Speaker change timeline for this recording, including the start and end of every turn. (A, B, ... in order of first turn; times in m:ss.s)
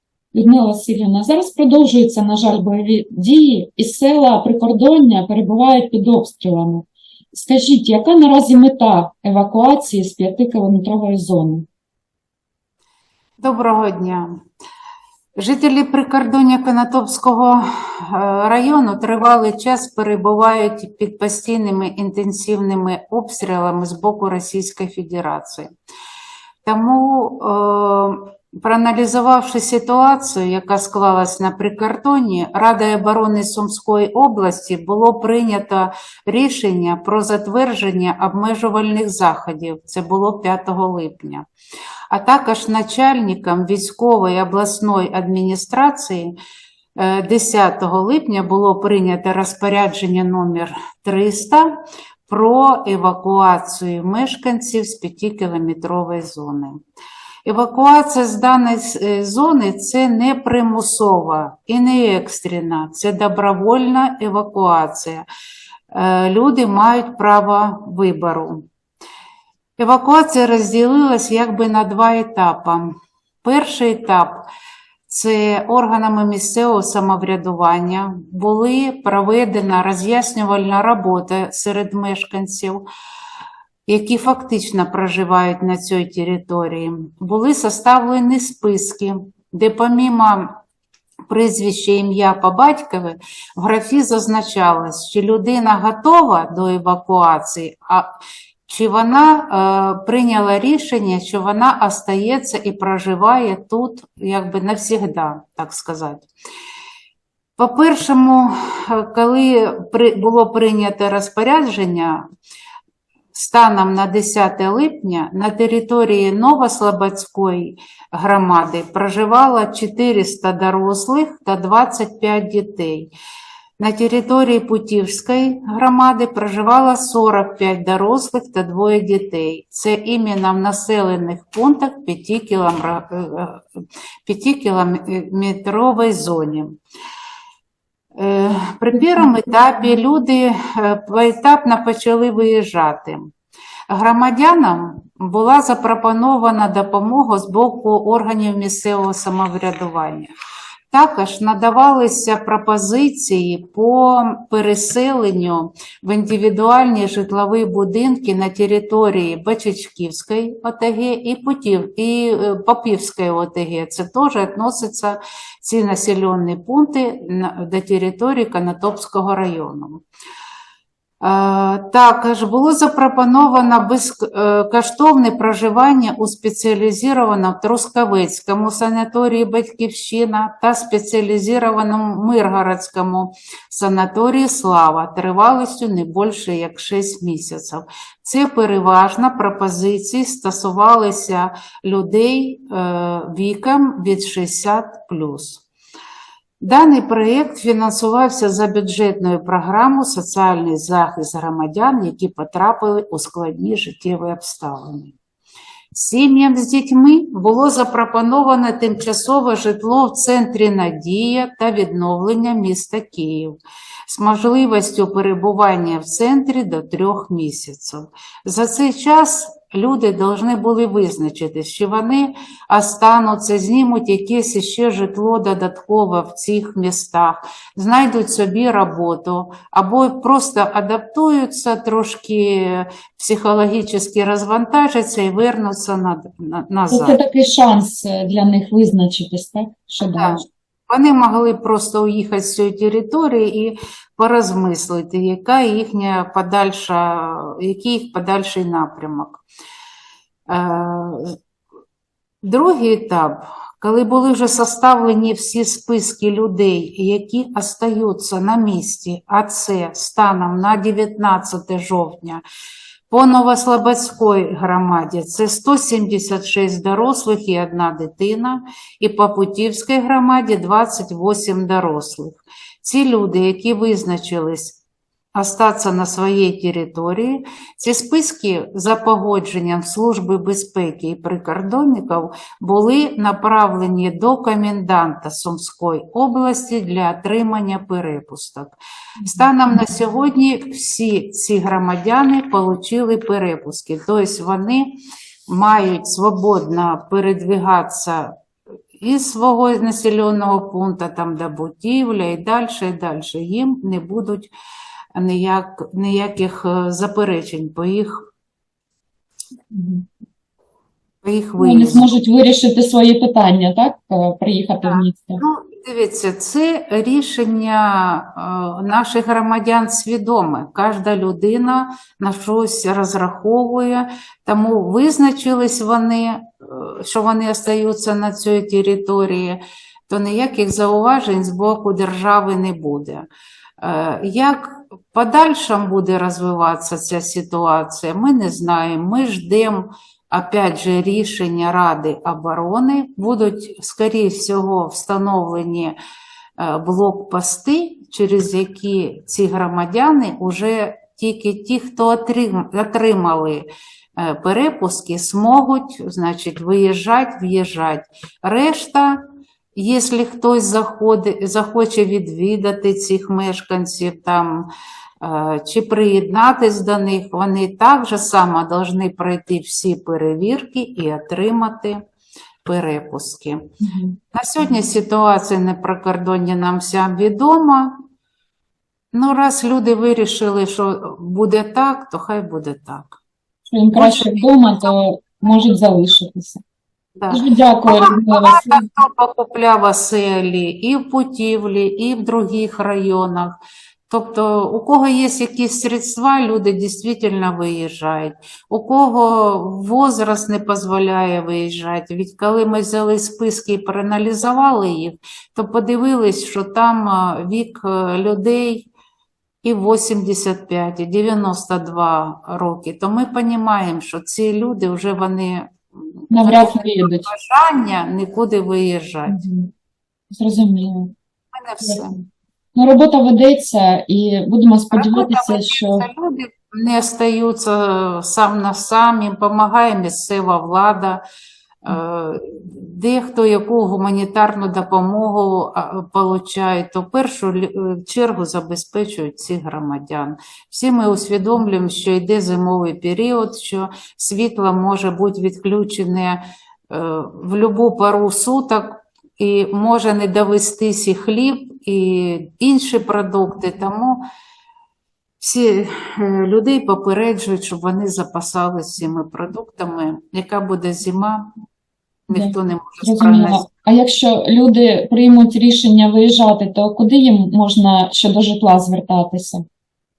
0:00.3-0:11.7 A
0:13.4-0:14.3 B
0:15.4-0:25.7 B
0:26.6-0:41.5 B
0:42.1-0:46.4 B
0:47.0-0:56.8 B
0:57.5-1:05.2 B
1:05.9-1:08.6 B
1:09.8-1:12.9 B
1:13.4-1:14.4 B
1:15.1-1:22.8 B
1:23.9-1:30.5 B
1:31.3-1:38.1 B
1:38.7-1:46.3 B
1:47.6-1:52.2 B
1:53.3-2:03.1 B
2:03.8-2:13.7 B
2:14.3-2:16.8 B
2:18.2-2:23.2 B
2:19.0-2:19.3 A
2:23.9-2:30.3 B
2:30.9-2:50.0 B
2:51.2-3:15.6 B
3:16.6-3:25.2 B
3:25.9-3:33.6 B
3:34.1-3:57.2 B
3:56.9-4:00.4 A
4:00.0-4:09.4 B
4:10.5-4:11.4 B
4:12.4-4:22.4 B
4:23.1-4:34.8 B
4:35.4-4:58.3 B
4:49.2-4:49.8 A
4:59.0-5:04.5 B
5:05.2-5:08.1 B
5:09.7-5:10.1 A
5:11.2-5:12.2 B
5:11.6-5:15.4 A
5:14.8-5:33.3 B
5:33.8-5:46.0 B
5:46.6-5:53.7 B
5:54.2-5:59.2 B
5:59.8-6:04.7 B
6:05.2-6:12.0 B
6:12.6-6:13.6 B
6:13.8-6:14.2 A
6:14.3-6:17.9 B
6:19.1-6:23.2 B
6:23.7-6:26.6 A
6:23.9-6:24.9 B
6:27.2-6:33.6 B
6:27.3-6:28.9 A
6:34.1-6:48.9 B
6:49.6-6:55.6 B
6:56.3-6:57.3 A
6:56.3-6:59.4 B
6:59.3-6:59.7 A
7:00.3-7:01.1 A
7:01.5-7:02.2 B
7:02.8-7:06.1 A
7:04.9-7:11.2 B
7:11.8-7:26.4 B
7:26.9-7:34.2 B
7:35.4-7:41.5 B
7:42.3-7:43.7 B
7:42.3-7:49.7 A